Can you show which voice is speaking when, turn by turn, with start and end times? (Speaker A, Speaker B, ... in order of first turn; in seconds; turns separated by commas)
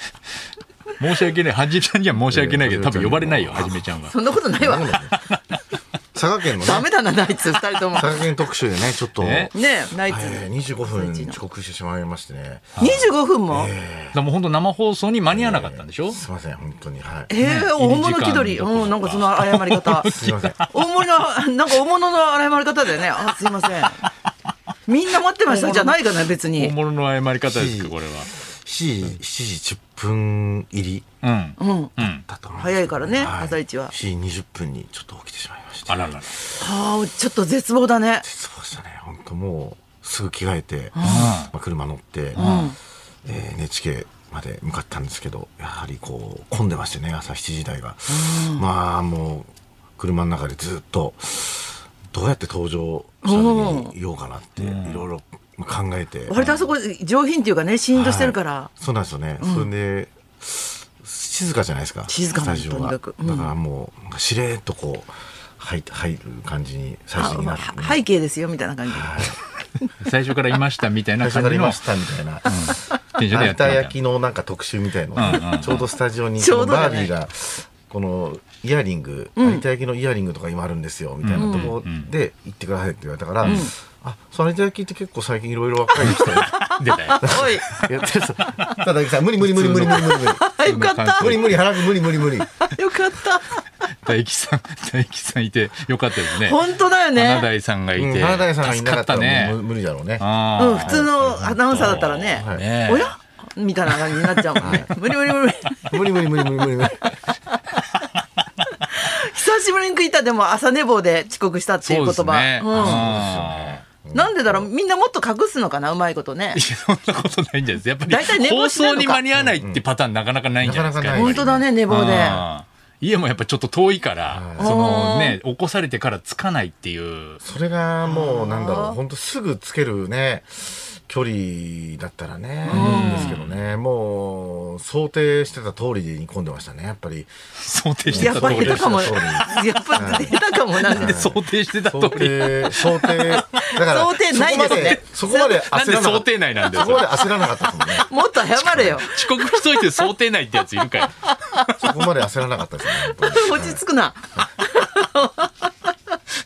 Speaker A: 1.0-4.1, Speaker B: 2.3-3.9, Speaker C: 4.1-5.0, Speaker B: 4.6-5.2, Speaker A: 5.1-5.4, Speaker B: 6.1-6.9, Speaker C: 6.6-8.2, Speaker B: 7.9-12.8, Speaker A: 9.2-9.5, Speaker C: 9.5-11.4, Speaker A: 12.8-13.1, Speaker C: 12.8-13.7, Speaker B: 13.5-14.2, Speaker A: 14.1-16.2, Speaker B: 15.3-17.3, Speaker C: 17.3-20.1, Speaker A: 17.4-20.8, Speaker B: 20.0-20.6, Speaker C: 20.7-24.0, Speaker C: 24.9-26.7, Speaker A: 25.4-28.3, Speaker B: 27.4-31.0, Speaker A: 31.2-32.2, Speaker C: 31.6-31.9, Speaker B: 32.0-36.6, Speaker C: 32.6-33.9, Speaker A: 35.9-36.3, Speaker C: 36.6-38.2, Speaker B: 38.2-42.4, Speaker C: 40.9-41.3, Speaker A: 41.0-41.5, Speaker C: 42.4-42.8, Speaker A: 42.4-42.7, Speaker B: 43.2-56.5, Speaker C: 48.1-48.6, Speaker C: 53.2-53.9, Speaker A: 54.6-55.0, Speaker C: 56.3-58.7, Speaker B: 57.9-68.0, Speaker C: 59.4-59.7, Speaker C: 62.1-63.5, Speaker C: 67.2-69.9, Speaker B: 68.9-69.4, Speaker A: 70.0-71.8, Speaker B: 71.2-86.7, Speaker A: 72.5-74.0, Speaker A: 75.2-75.9, Speaker C: 76.4-77.1, Speaker C: 79.3-79.6, Speaker A: 81.2-82.1, Speaker C: 81.4-81.8, Speaker A: 83.4-83.7, Speaker C: 83.4-83.7, Speaker A: 86.0-87.9, Speaker C: 86.0-87.7, Speaker B: 87.2-90.5, Speaker A: 89.4-91.6, Speaker C: 90.1-91.5, Speaker B: 91.1-92.5, Speaker C: 92.6-93.6, Speaker A: 94.0-99.6, Speaker C: 96.3-97.5, Speaker B: 98.0-102.7, Speaker A: 100.2-101.1, Speaker C: 100.6-106.6, Speaker A: 101.7-103.1, Speaker A: 103.9-104.8, Speaker B: 104.6-104.9, Speaker B: 105.9-107.1, Speaker C: 108.8-113.1, Speaker A: 111.8-113.8, Speaker B: 112.7-114.7, Speaker C: 114.1-116.6, Speaker A: 116.5-127.4, Speaker C: 118.0-119.2, Speaker B: 119.3-119.8, Speaker B: 120.6-121.7, Speaker C: 121.1-122.5, Speaker B: 124.3-124.7, Speaker C: 124.6-125.4, Speaker B: 127.4-137.3, Speaker C: 128.0-129.0, Speaker C: 132.6-133.3, Speaker A: 132.7-133.6, Speaker A: 137.6-143.7, Speaker B: 138.1-140.3, Speaker C: 138.1-141.2, Speaker B: 140.9-149.0, Speaker C: 143.6-145.7, Speaker A: 144.5-145.0, Speaker A: 145.5-147.5, Speaker C: 147.9-149.8, Speaker A: 149.0-151.2, Speaker C: 151.2-151.7, Speaker B: 151.7-153.8, Speaker C: 153.0-155.7